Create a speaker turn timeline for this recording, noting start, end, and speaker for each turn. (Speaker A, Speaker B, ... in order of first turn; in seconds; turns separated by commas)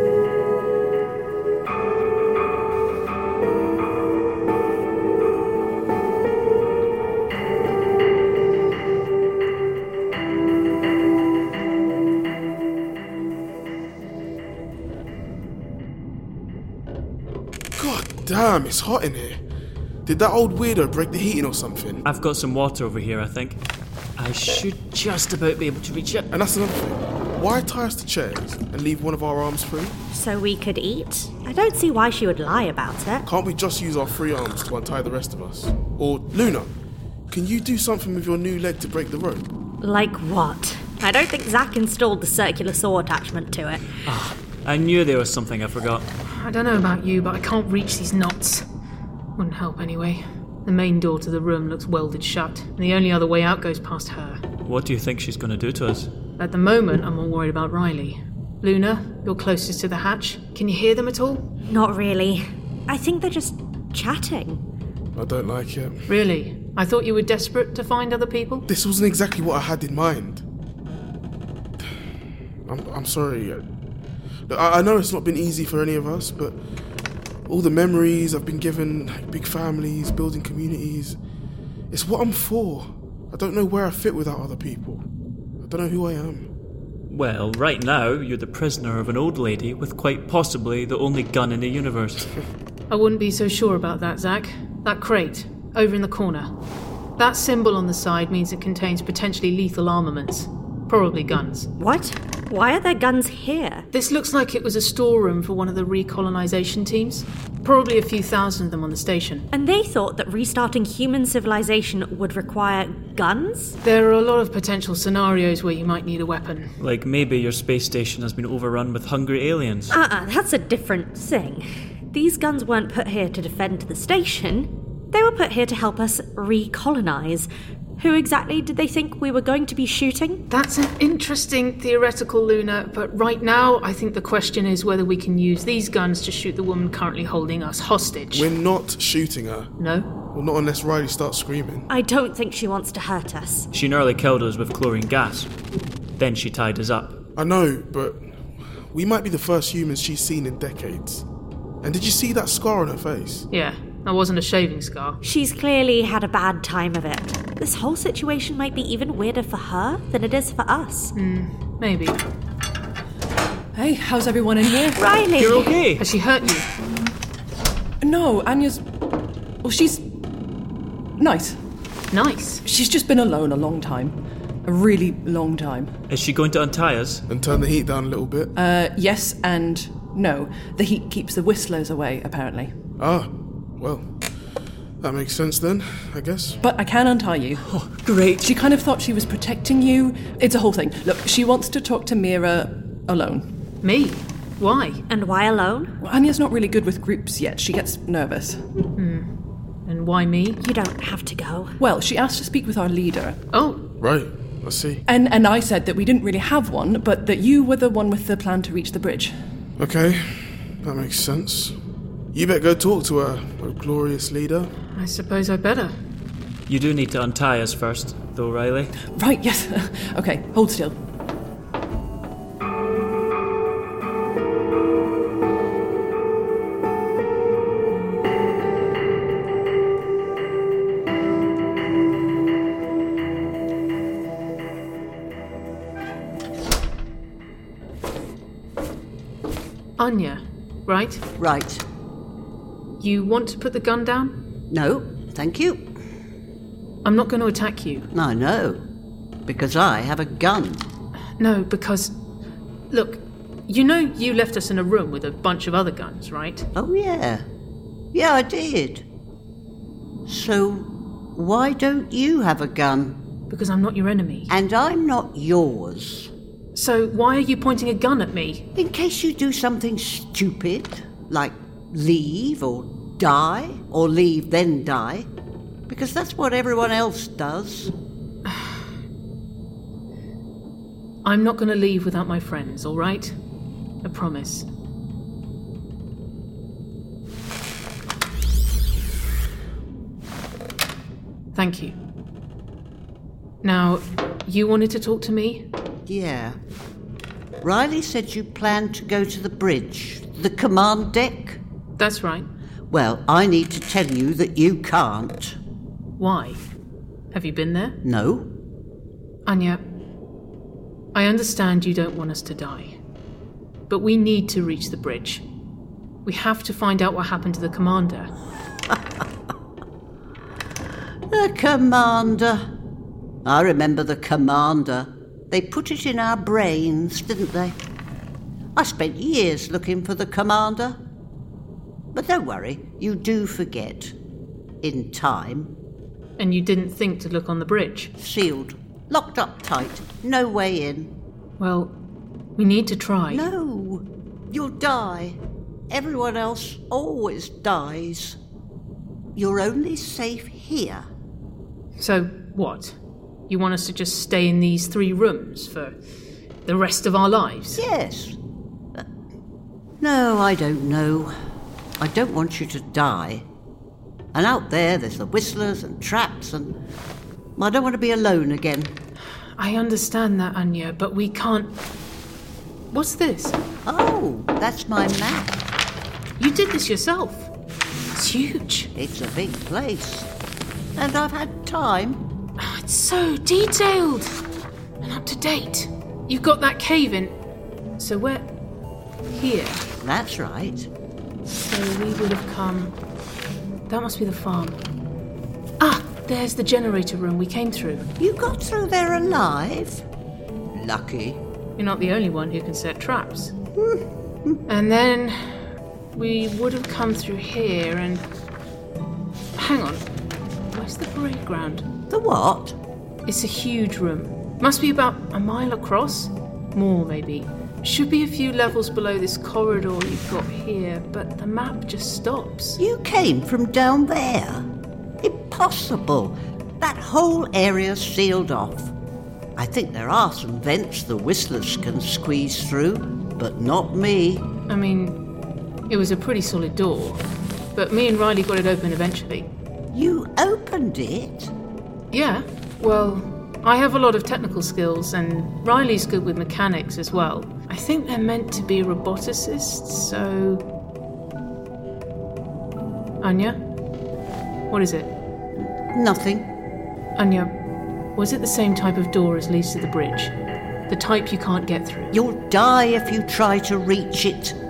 Speaker A: 17.8-19.4, Speaker A: 20.1-22.0, Speaker B: 22.1-23.6, Speaker B: 24.2-26.3, Speaker A: 26.3-30.0, Speaker C: 30.1-33.3, Speaker A: 33.3-36.7, Speaker A: 37.3-39.5, Speaker C: 39.8-43.8, Speaker B: 44.0-46.1, Speaker D: 46.3-48.6, Speaker D: 49.4-54.4, Speaker B: 54.6-56.1, Speaker D: 56.4-61.5, Speaker C: 61.7-64.6, Speaker A: 65.2-66.0, Speaker D: 66.1-68.7, Speaker A: 68.7-70.4, Speaker A: 72.7-73.6, Speaker A: 74.5-76.6, Speaker A: 77.5-81.2, Speaker A: 81.9-85.0, Speaker A: 85.6-86.5, Speaker B: 87.1-92.3, Speaker D: 92.9-96.5, Speaker D: 97.2-101.7, Speaker C: 101.8-103.9, Speaker D: 103.9-109.5, Speaker C: 109.5-113.8, Speaker D: 113.8-116.7, Speaker B: 116.8-120.0, Speaker C: 119.9-130.4, Speaker D: 130.5-138.5, Speaker A: 138.3-139.7, Speaker D: 139.8-140.1, Speaker A: 140.3-141.9, Speaker C: 141.9-143.7, Speaker B: 143.7-145.5, Speaker B: 146.2-147.2, Speaker A: 147.4-148.3, Speaker A: 148.9-151.2, Speaker A: 151.8-153.5, Speaker D: 153.5-155.2, Speaker C: 155.2-161.1, Speaker D: 161.2-162.2, Speaker E: 163.7-165.1, Speaker C: 164.9-165.8, Speaker B: 165.4-166.0, Speaker D: 166.0-166.7, Speaker E: 168.0-168.8, Speaker E: 169.6-170.1, Speaker E: 171.2-171.6, Speaker D: 172.1-172.6, Speaker E: 172.6-175.9, Speaker B: 176.1-177.3, Speaker A: 177.3-178.5, Speaker E: 178.6-182.7, Speaker A: 183.0-184.1, Speaker A: 185.0-186.6, Speaker E: 186.6-187.6, Speaker B: 187.7-188.5, Speaker E: 188.4-193.5, Speaker D: 193.8-195.0, Speaker C: 195.1-195.9, Speaker E: 196.0-198.6, Speaker D: 198.9-199.3, Speaker D: 199.9-200.6, Speaker C: 200.6-201.7, Speaker E: 201.8-203.4, Speaker D: 203.5-203.8, Speaker A: 204.0-205.0, Speaker E: 205.1-209.3, Speaker A: 209.8-211.8, Speaker A: 212.3-214.7, Speaker D: 214.9-215.9, Speaker B: 216.7-218.9, Speaker E: 219.2-221.0, Speaker D: 240.0-241.2, Speaker F: 241.4-241.8, Speaker D: 243.0-244.5, Speaker F: 244.7-246.0, Speaker D: 247.1-248.1, Speaker F: 248.1-248.8, Speaker F: 249.5-250.9, Speaker D: 251.4-252.2, Speaker D: 252.9-256.7, Speaker F: 256.8-257.5, Speaker F: 258.1-259.1, Speaker F: 260.2-263.2, Speaker D: 263.5-264.5, Speaker F: 264.5-266.3, Speaker D: 266.8-268.7, Speaker F: 268.8-275.3, Speaker F: 275.9-277.9, Speaker D: 281.2-283.4, Speaker D: 284.0-284.7, Speaker D: 291.5-292.0, Speaker D: 293.6-295.7, Speaker F: 296.1-296.6, Speaker F: 297.6-301.6, Speaker D: 302.0-302.5, Speaker F: 302.9-305.6, Speaker D: 306.2-306.6, Speaker D: 307.3-308.0, Speaker F: 308.0-308.5, Speaker D: 309.5-309.8, Speaker D: 311.1-313.0, Speaker D: 313.9-315.4, Speaker D: 316.2-318.3, Speaker F: 321.3-322.7, Speaker F: 323.4-327.8, Speaker F: 328.8-331.0, Speaker F: 332.1-334.1, Speaker F: 334.8-335.7, Speaker D: 336.4-338.1, Speaker F: 338.2-341.1, Speaker D: 341.6-341.9, Speaker D: 342.6-343.5, Speaker F: 343.3-348.4, Speaker F: 349.4-351.1, Speaker D: 352.0-353.0, Speaker D: 353.5-356.0, Speaker D: 356.6-357.8, Speaker F: 357.8-358.4, Speaker F: 360.0-361.3, Speaker F: 362.0-363.4, Speaker F: 364.3-366.8, Speaker F: 367.6-369.0, Speaker D: 369.6-371.8, Speaker D: 372.9-373.6, Speaker F: 373.9-375.6, Speaker D: 376.4-377.5, Speaker D: 378.1-378.9, Speaker F: 378.9-380.3, Speaker F: 381.0-382.2, Speaker D: 382.6-384.4, Speaker D: 385.0-387.4, Speaker D: 388.0-388.5, Speaker D: 389.3-389.8, Speaker F: 390.0-390.9, Speaker D: 391.6-393.0, Speaker D: 393.9-394.8, Speaker D: 395.8-398.1, Speaker F: 398.2-400.1, Speaker F: 400.7-401.4, Speaker D: 401.8-403.5, Speaker F: 403.8-404.6, Speaker D: 404.7-408.3, Speaker D: 409.6-410.1, Speaker D: 410.7-411.9, Speaker F: 412.1-412.8, Speaker D: 413.3-422.8, Speaker F: 422.8-424.7, Speaker F: 425.2-428.9, Speaker F: 429.6-434.5, Speaker D: 434.7-435.3, Speaker D: 435.9-437.2, Speaker D: 437.8-439.5, Speaker F: 439.9-441.5, Speaker D: 442.1-450.7, Speaker D: 453.2-453.6, Speaker D: 454.7-455.1, Speaker F: 455.6-456.5, Speaker D: 457.2-457.5, Speaker D: 458.1-460.3, Speaker D: 460.9-462.2, Speaker F: 462.1-464.6